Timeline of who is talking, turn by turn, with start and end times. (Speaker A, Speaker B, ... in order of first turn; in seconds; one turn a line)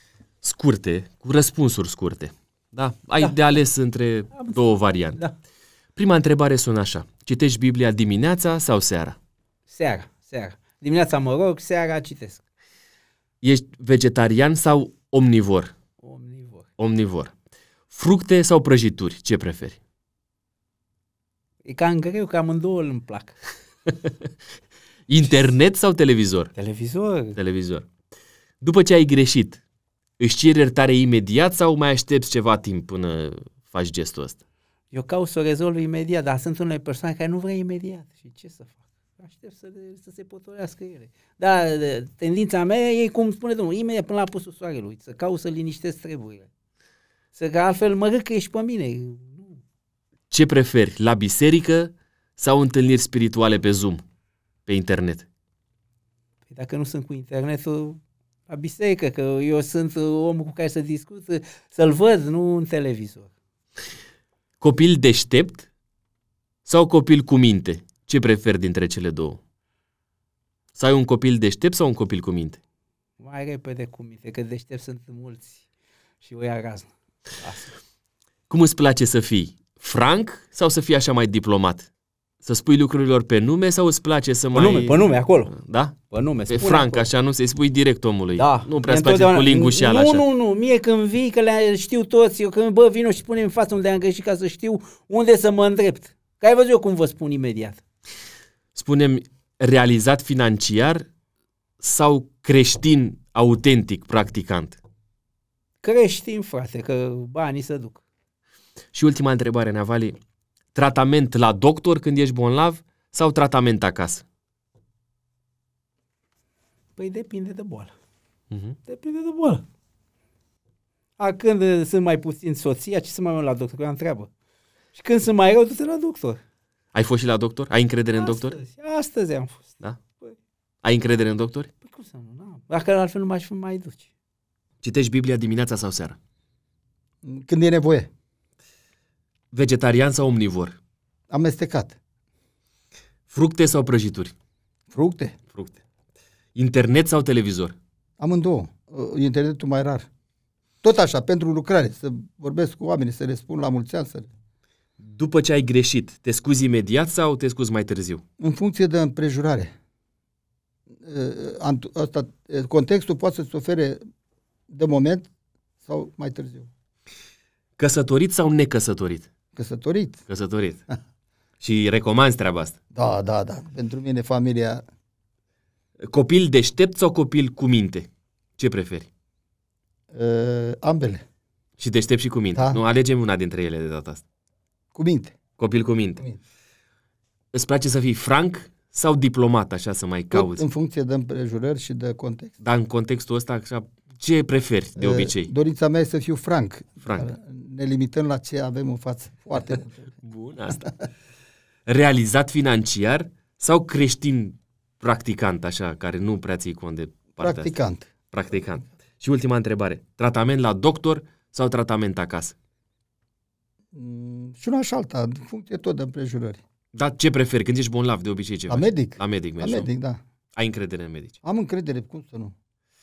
Speaker A: 0.4-5.2
Speaker B: 3.2-3.6
Speaker B: 4.3-5.3
Speaker A: 6.0-9.2
Speaker B: 9.7-12.4
Speaker A: 13.4-15.7
Speaker B: 16.0-16.7
Speaker A: 16.8-17.3
Speaker A: 17.9-19.8
Speaker B: 21.6-23.4
Speaker A: 25.1-26.5
Speaker B: 26.6-27.3
Speaker A: 27.3-27.9
Speaker A: 28.6-29.6
Speaker A: 30.2-34.4
Speaker B: 34.9-46.5
Speaker B: 47.4-49.6
Speaker A: 50.3-54.0
Speaker A: 54.7-55.2
Speaker B: 56.5-58.0
Speaker B: 58.5-63.3
Speaker A: 64.6-65.7
Speaker A: 66.7-69.4
Speaker A: 70.8-72.6
Speaker B: 73.2-75.6
Speaker B: 76.2-77.7
Speaker A: 78.5-81.9
Speaker A: 82.4-90.3
Speaker B: 84.5-85.5
Speaker B: 86.1-87.1
Speaker B: 88.3-97.8
Speaker A: 98.8-101.0
Speaker A: 101.8-104.8
Speaker B: 105.8-108.0
Speaker A: 108.9-110.2
Speaker A: 110.7-114.2
Speaker B: 117.0-117.9
Speaker A: 118.5-118.8
Speaker B: 118.8-119.6
Speaker B: 121.2-124.3
Speaker B: 124.9-126.4
Speaker A: 126.9-128.6
Speaker B: 128.1-130.3
Speaker A: 130.8-131.7
Speaker B: 131.8-134.1
Speaker A: 134.8-136.2
Speaker C: 137.2-138.1
Speaker A: 139.5-140.8
Speaker C: 141.3-141.9
Speaker A: 143.3-144.3
Speaker C: 144.9-145.3
Speaker A: 146.6-147.7
Speaker C: 148.2-150.1
Speaker C: 150.8-154.3
Speaker A: 155.0-158.2
Speaker C: 158.4-159.7
Speaker C: 161.0-164.0
Speaker C: 164.7-165.3
Speaker C: 165.8-166.7
Speaker A: 167.8-169.3
Speaker C: 169.5-170.2
Speaker A: 170.3-170.8
Speaker A: 171.6-172.8
Speaker C: 172.9-174.8
Speaker A: 176.0-179.1
Speaker C: 180.1-181.2
Speaker A: 181.8-184.2
Speaker C: 182.5-182.8
Speaker C: 184.9-185.3
Speaker A: 185.6-186.2
Speaker A: 187.5-190.6
Speaker C: 190.3-192.5
Speaker A: 192.6-195.5
Speaker C: 194.9-199.9
Speaker A: 197.0-197.3
Speaker A: 200.2-200.8
Speaker A: 201.9-207.7
Speaker C: 207.4-208.1
Speaker A: 208.3-212.5
Speaker C: 213.9-216.6
Speaker A: 216.9-219.9
Speaker C: 218.7-220.2
Speaker A: 220.6-221.3
Speaker C: 221.4-222.5